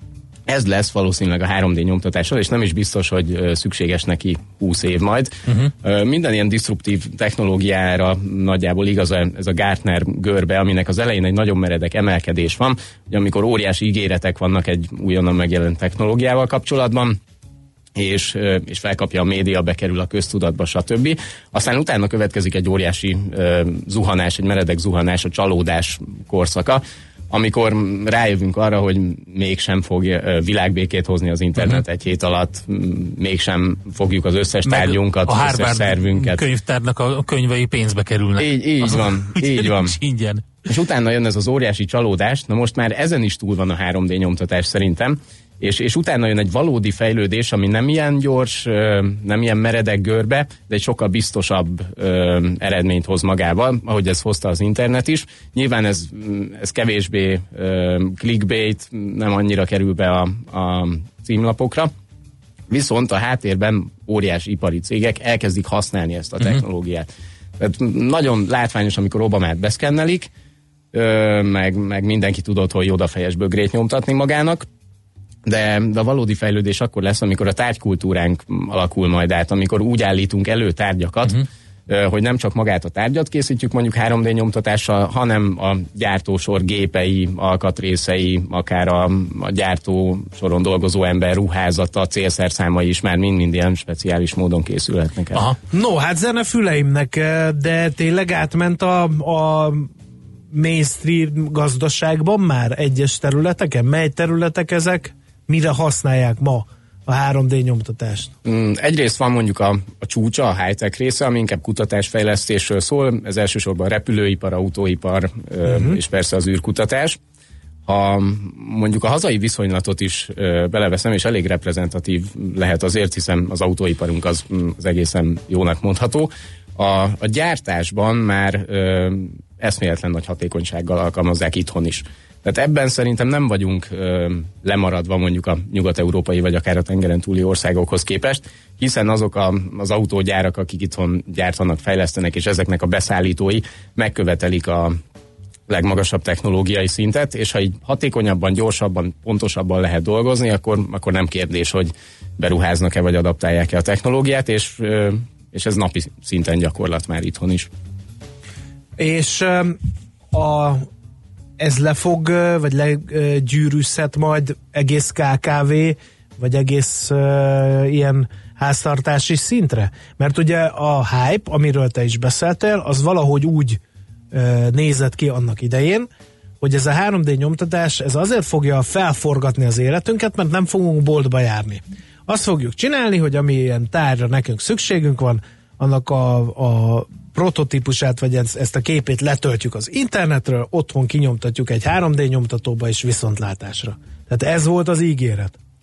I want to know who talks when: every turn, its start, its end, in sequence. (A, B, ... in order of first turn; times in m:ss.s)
0:00.5-0:17.2 A
0:18.0-0:36.5 A
0:34.6-0:40.5 B
0:38.4-0:40.0 A
0:40.7-1:01.9 A
1:02.7-1:10.3 A
1:10.9-1:14.6 A
1:15.4-1:35.5 A
1:35.7-1:39.9 C
1:40.5-1:48.3 C
1:48.4-1:57.2 A
1:55.6-1:56.0 C
1:57.8-2:25.0 A
2:25.7-2:37.7 A
2:39.0-2:39.8 C
2:40.3-2:40.8 C
2:41.6-2:53.8 C
2:54.3-2:56.1 C
2:56.6-3:15.6 C